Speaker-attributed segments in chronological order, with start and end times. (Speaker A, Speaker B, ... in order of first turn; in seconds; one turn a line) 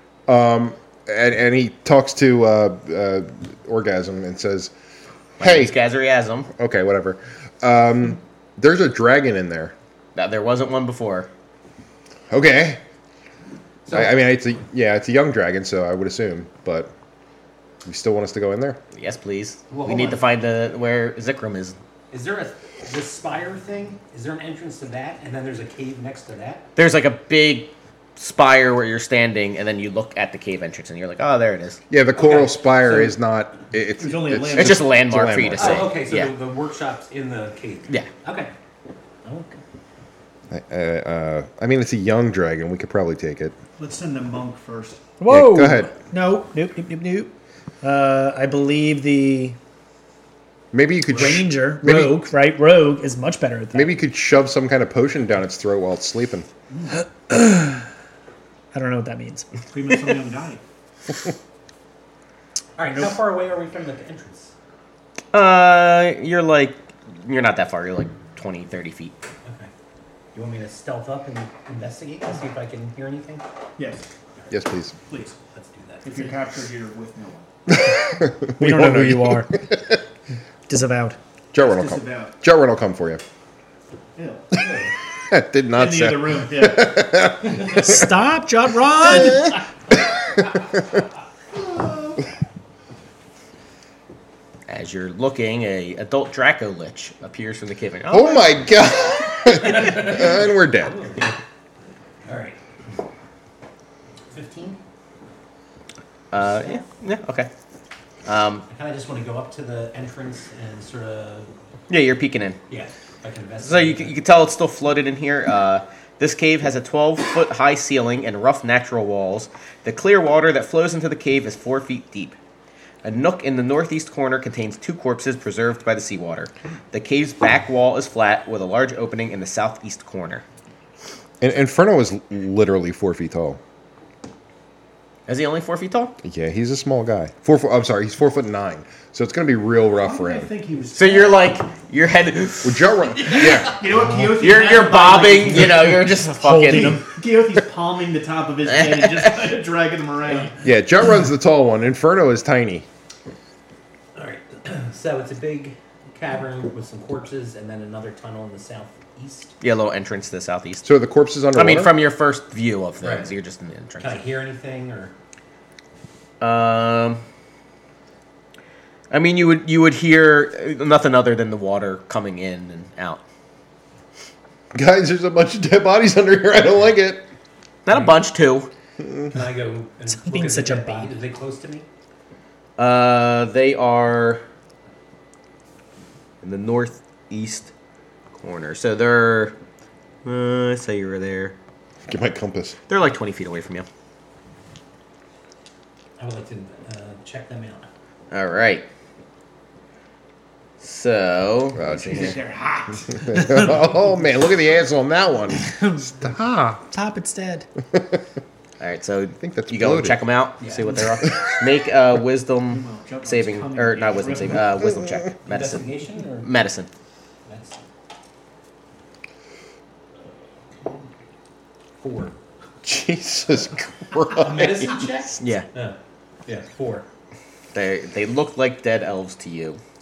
Speaker A: 0.3-4.7
Speaker A: 5.4-5.8
Speaker B: 5.4-6.5
Speaker A: 6.5-9.7
Speaker B: 10.2-11.3
Speaker A: 12.3-12.8
Speaker C: 13.8-14.1
Speaker A: 13.9-16.9
Speaker A: 17.9-18.8
Speaker B: 18.9-21.8
Speaker C: 19.7-20.2
Speaker C: 22.1-26.7
Speaker B: 26.8-31.8
Speaker A: 31.9-35.9
Speaker C: 32.2-33.1
Speaker D: 34.0-34.9
Speaker B: 34.5-36.3
Speaker C: 35.6-38.5
Speaker C: 39.2-39.6
Speaker A: 40.5-43.6
Speaker D: 43.8-45.1
Speaker E: 45.2-49.6
Speaker A: 45.3-45.9
Speaker A: 50.7-52.3
Speaker E: 51.1-54.0
Speaker A: 53.7-56.5
Speaker E: 57.3-57.8
Speaker E: 58.7-59.5
Speaker D: 59.7-60.6
Speaker C: 62.8-64.5
Speaker B: 65.3-69.2
Speaker C: 69.4-69.7
Speaker C: 70.3-73.4
Speaker D: 73.8-74.1
Speaker A: 74.5-75.0
Speaker D: 75.1-75.4
Speaker C: 75.5-76.4
Speaker D: 76.0-77.5
Speaker A: 77.7-79.9
Speaker E: 78.5-79.7
Speaker E: 80.7-81.2
Speaker A: 81.5-83.2
Speaker D: 81.6-82.3
Speaker D: 84.2-84.5
Speaker C: 84.6-84.9
Speaker A: 85.3-88.1
Speaker D: 85.7-87.0
Speaker E: 87.6-89.6
Speaker B: 94.7-98.5
Speaker A: 98.1-101.0
Speaker C: 99.5-101.4
Speaker C: 102.2-102.6
Speaker C: 104.3-104.8
Speaker B: 106.3-107.5
Speaker C: 106.5-106.8
Speaker B: 108.2-108.7
Speaker C: 108.7-111.5
Speaker B: 111.9-112.6
Speaker C: 112.7-114.2
Speaker B: 113.6-122.4
Speaker B: 123.0-130.4
Speaker A: 131.4-133.6
Speaker B: 135.3-136.2
Speaker A: 136.2-140.5
Speaker D: 140.0-141.5
Speaker B: 140.9-143.8
Speaker A: 142.6-143.8
Speaker D: 143.4-145.8
Speaker B: 144.4-147.0
Speaker E: 146.3-147.1
Speaker D: 146.8-150.6
Speaker B: 148.7-149.5
Speaker A: 150.6-152.9
Speaker C: 154.2-159.6
Speaker B: 159.6-160.9
Speaker A: 160.8-161.9
Speaker B: 161.5-164.2
Speaker C: 163.0-163.3
Speaker C: 164.0-165.1
Speaker B: 166.4-167.2
Speaker B: 169.1-173.2
Speaker A: 174.7-177.3
Speaker B: 177.9-178.7
Speaker C: 179.3-181.9
Speaker E: 180.2-181.1
Speaker B: 182.8-184.4
Speaker B: 186.4-187.7
Speaker B: 188.4-189.6
Speaker B: 190.2-191.6
Speaker A: 192.1-192.8
Speaker B: 192.9-193.9
Speaker C: 196.2-197.9
Speaker B: 198.3-198.9
Speaker B: 200.8-202.4
Speaker A: 201.8-202.4
Speaker D: 201.9-203.3
Speaker A: 203.2-206.8
Speaker E: 205.6-206.1
Speaker E: 206.8-207.7
Speaker B: 208.8-216.9
Speaker A: 209.4-210.2
Speaker C: 210.6-211.0
Speaker D: 212.7-214.7
Speaker C: 215.5-216.5
Speaker C: 217.4-217.8
Speaker C: 222.0-222.3
Speaker A: 222.8-224.9
Speaker C: 224.3-227.1
Speaker B: 225.4-225.7
Speaker B: 227.7-229.8